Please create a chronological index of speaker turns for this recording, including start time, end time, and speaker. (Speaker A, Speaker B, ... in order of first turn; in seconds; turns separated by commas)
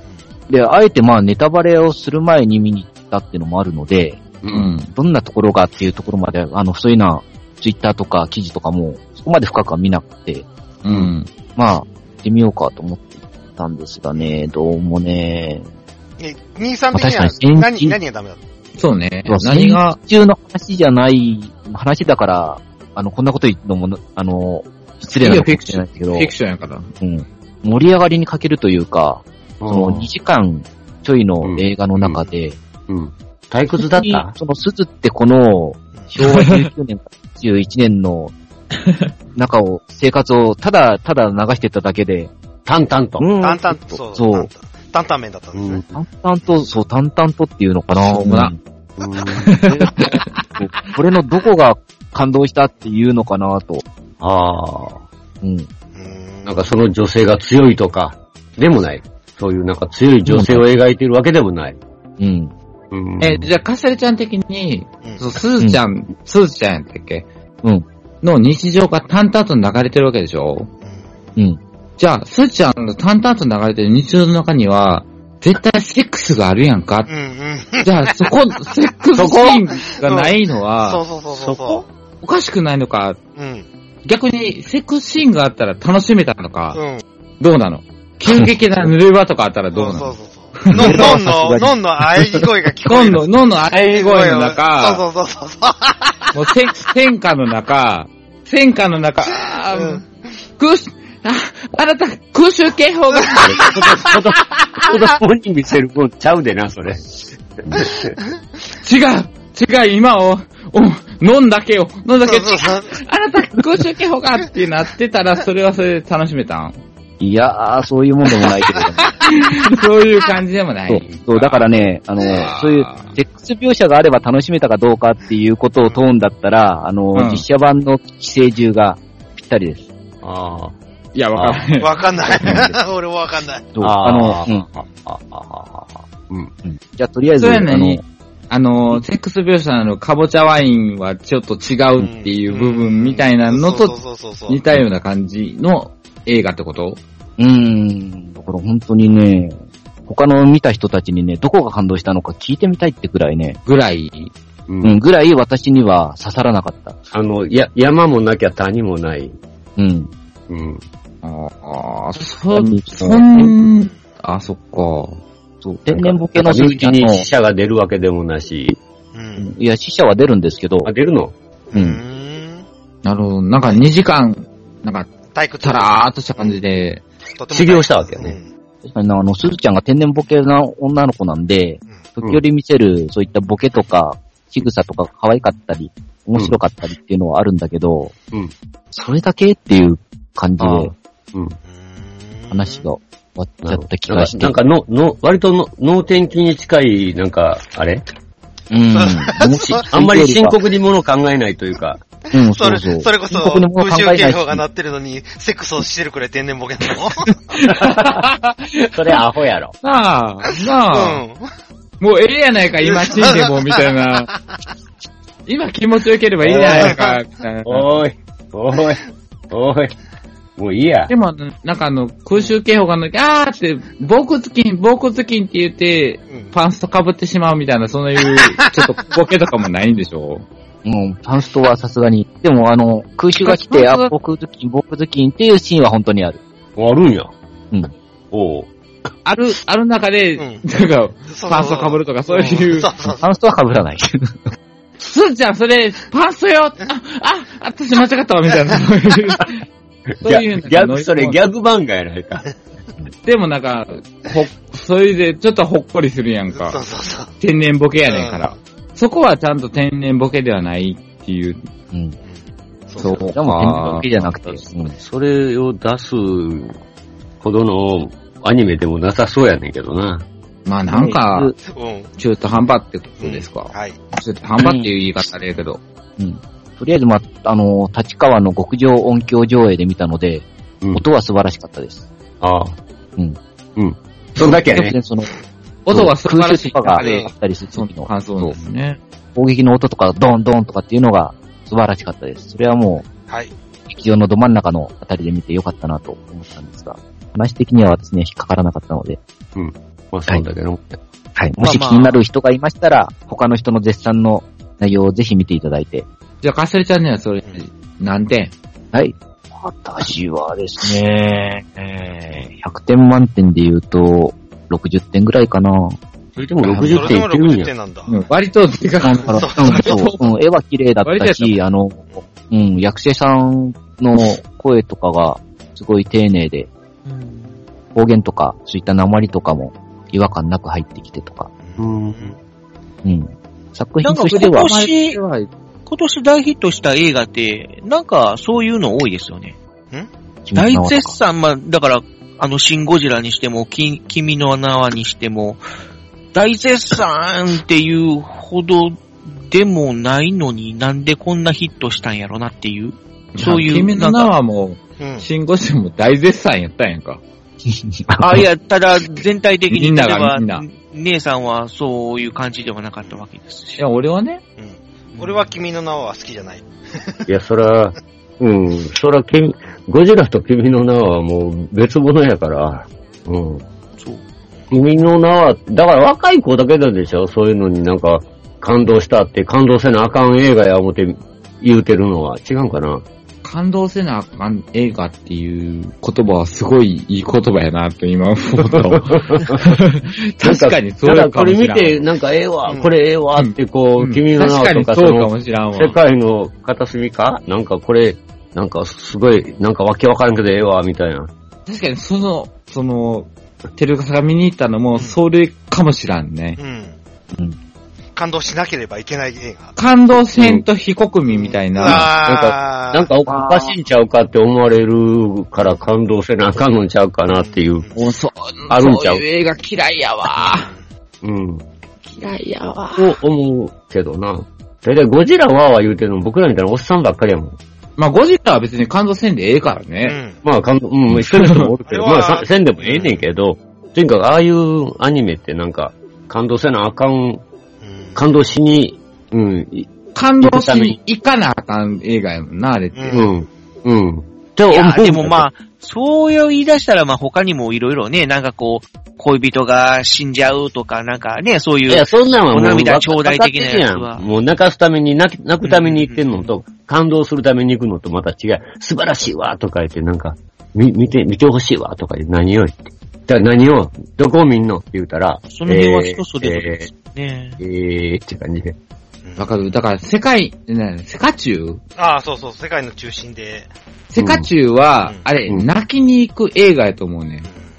Speaker A: 0.5-4.2, Speaker B: 4.4-4.7, Speaker C: 4.5-4.9, Speaker A: 4.9-10.5, Speaker C: 10.8-11.3, Speaker A: 11.6-15.7, Speaker D: 14.2-14.4, Speaker D: 16.2-18.4, Speaker A: 16.9-18.0, Speaker C: 18.8-20.0, Speaker A: 19.3-26.3, Speaker C: 25.1-26.9, Speaker A: 27.0-32.6, Speaker B: 29.6-30.1, Speaker B: 31.4-32.3, Speaker B: 32.9-34.3, Speaker A: 33.9-38.3, Speaker C: 36.2-36.7, Speaker A: 39.4-42.3, Speaker B: 42.7-43.3, Speaker A: 43.2-44.5, Speaker D: 43.4-45.8, Speaker B: 45.5-46.0, Speaker A: 45.9-48.6, Speaker C: 48.0-48.5, Speaker B: 49.0-49.6, Speaker C: 49.4-50.2, Speaker A: 49.8-50.1, Speaker A: 50.6-53.8, Speaker B: 54.2-55.0, Speaker A: 55.4-55.7, Speaker D: 56.0-56.8, Speaker B: 56.5-61.8, Speaker A: 60.3-60.6, Speaker A: 62.2-62.5, Speaker B: 62.9-63.5, Speaker C: 63.2-67.3, Speaker C: 68.2-70.7, Speaker C: 72.0-77.1, Speaker D: 77.1-78.3, Speaker C: 77.8-83.2, Speaker B: 79.2-79.5, Speaker D: 79.9-81.8, Speaker D: 83.4-83.7, Speaker C: 84.0-86.8, Speaker D: 86.7-87.0, Speaker C: 87.4-91.2, Speaker D: 89.7-96.3, Speaker A: 90.7-91.8, Speaker C: 92.8-95.0, Speaker C: 96.3-100.0, Speaker D: 99.7-100.0, Speaker C: 100.6-103.9, Speaker B: 103.4-107.0, Speaker B: 107.6-108.2, Speaker C: 108.8-116.8, Speaker D: 112.2-113.0, Speaker A: 117.2-119.2, Speaker C: 119.2-123.2, Speaker A: 120.9-129.9, Speaker C: 127.1-127.5, Speaker B: 130.2-130.8, Speaker C: 131.2-132.7, Speaker B: 131.3-131.7, Speaker D: 131.8-133.7, Speaker A: 133.8-134.7, Speaker B: 133.8-136.5, Speaker A: 136.7-138.0, Speaker C: 137.4-144.0, Speaker D: 142.0-144.6, Speaker C: 144.5-147.0, Speaker A: 147.4-153.6, Speaker C: 153.7-154.3, Speaker B: 154.7-155.0, Speaker A: 154.8-157.0, Speaker B: 157.1-159.4, Speaker A: 159.8-160.1, Speaker B: 160.5-160.8, Speaker C: 161.2-165.2, Speaker A: 162.5-163.3, Speaker A: 165.6-167.3, Speaker B: 165.9-168.8, Speaker D: 169.1-169.5, Speaker A: 169.4-170.9, Speaker B: 170.8-171.3, Speaker D: 171.7-172.7, Speaker A: 171.7-172.0, Speaker C: 173.0-175.1, Speaker D: 175.3-176.6, Speaker C: 175.6-177.0, Speaker D: 177.4-178.5, Speaker B: 177.5-178.4, Speaker A: 178.8-188.1, Speaker A: 188.9-190.9, Speaker B: 190.6-191.6, Speaker D: 191.7-192.8, Speaker A: 192.5-194.6, Speaker B: 193.6-198.0, Speaker A: 198.7-200.6, Speaker D: 198.9-199.9, Speaker B: 199.9-202.0, Speaker D: 202.3-207.4, Speaker A: 202.3-204.6, Speaker C: 207.6-209.2, Speaker B: 207.8-208.2, Speaker B: 208.9-209.7, Speaker C: 209.8-211.2, Speaker D: 210.9-211.4, Speaker C: 212.0-214.3, Speaker D: 212.8-213.8, Speaker C: 215.5-218.0, Speaker B: 216.4-217.0, Speaker D: 216.7-217.2, Speaker B: 217.7-219.9, Speaker B: 220.6-221.1, Speaker C: 221.1-230.5, Speaker D: 228.3-228.8, Speaker A: 230.8-236.4, Speaker C: 233.4-234.1, Speaker B: 236.8-237.3, Speaker B: 238.3-238.7, Speaker C: 239.2-242.9, Speaker D: 240.4-240.6, Speaker D: 241.3-243.2, Speaker A: 243.2-244.4, Speaker C: 245.0-249.6, Speaker C: 250.2-251.4, Speaker B: 250.2-252.4, Speaker C: 253.2-256.8, Speaker D: 256.5-257.3, Speaker C: 257.4-261.7, Speaker D: 258.1-258.5, Speaker D: 262.2-263.3, Speaker C: 263.0-264.7, Speaker A: 263.3-264.9, Speaker B: 263.6-266.8, Speaker B: 267.4-270.2, Speaker C: 270.7-271.5, Speaker A: 270.9-271.6, Speaker D: 271.7-272.1, Speaker C: 272.2-275.8, Speaker D: 273.2-274.0, Speaker A: 274.6-274.9, Speaker A: 276.2-282.1, Speaker B: 282.4-282.8, Speaker B: 283.8-285.0, Speaker A: 284.4-285.3, Speaker C: 285.9-289.0, Speaker A: 285.9-288.1, Speaker D: 287.0-287.3, Speaker A: 289.4-293.1, Speaker D: 293.3-293.5, Speaker A: 293.9-299.2, Speaker B: 299.6-301.0, Speaker A: 301.4-306.1, Speaker E: 301.6-302.2, Speaker C: 306.4-308.5, Speaker A: 308.9-316.0, Speaker B: 316.4-317.7, Speaker A: 316.6-317.2, Speaker D: 316.8-318.2, Speaker C: 318.1-320.3, Speaker D: 319.1-320.0, Speaker A: 319.1-326.7, Speaker C: 321.1-321.6, Speaker E: 327.1-327.6, Speaker A: 327.9-331.5, Speaker D: 331.6-332.4, Speaker B: 331.8-332.4, Speaker A: 333.0-334.7, Speaker E: 334.0-335.2, Speaker C: 334.3-335.5, Speaker E: 335.9-339.6, Speaker A: 340.5-341.2, Speaker E: 340.6-345.6, Speaker E: 346.3-354.3, Speaker C: 353.4-357.2, Speaker D: 355.0-355.3, Speaker A: 357.7-358.4, Speaker E: 358.2-363.8, Speaker C: 359.7-360.6, Speaker C: 363.8-364.4, Speaker D: 364.6-367.3, Speaker E: 365.1-365.4, Speaker B: 367.3-373.6, Speaker E: 374.0-374.2, Speaker B: 374.7-383.0, Speaker C: 383.4-392.1, Speaker B: 388.6-389.8, Speaker B: 390.4-401.3, Speaker D: 392.7-392.9, Speaker C: 393.4-395.9, Speaker C: 401.7-406.6, Speaker D: 406.6-407.0, Speaker D: 408.2-409.8, Speaker C: 409.8-412.1, Speaker B: 410.4-410.6, Speaker D: 411.3-413.1, Speaker B: 411.8-417.9, Speaker D: 417.3-418.0, Speaker C: 417.9-420.7, Speaker B: 418.7-419.2, Speaker D: 420.5-420.8, Speaker B: 421.2-421.6, Speaker C: 422.1-423.1, Speaker B: 422.9-427.6, Speaker C: 428.0-430.2, Speaker D: 430.0-430.4, Speaker B: 430.4-437.4, Speaker C: 431.1-431.7, Speaker D: 431.9-433.2, Speaker D: 437.8-438.2, Speaker B: 438.1-439.9, Speaker C: 440.1-443.1, Speaker B: 440.4-441.0, Speaker D: 442.9-443.3, Speaker B: 443.1-445.5, Speaker E: 444.7-454.2, Speaker B: 451.9-466.9, Speaker E: 455.6-456.5, Speaker E: 465.5-467.6, Speaker B: 467.6-468.8, Speaker D: 469.2-469.8, Speaker C: 469.4-471.8, Speaker D: 472.0-473.7, Speaker C: 474.1-477.5, Speaker B: 474.2-474.5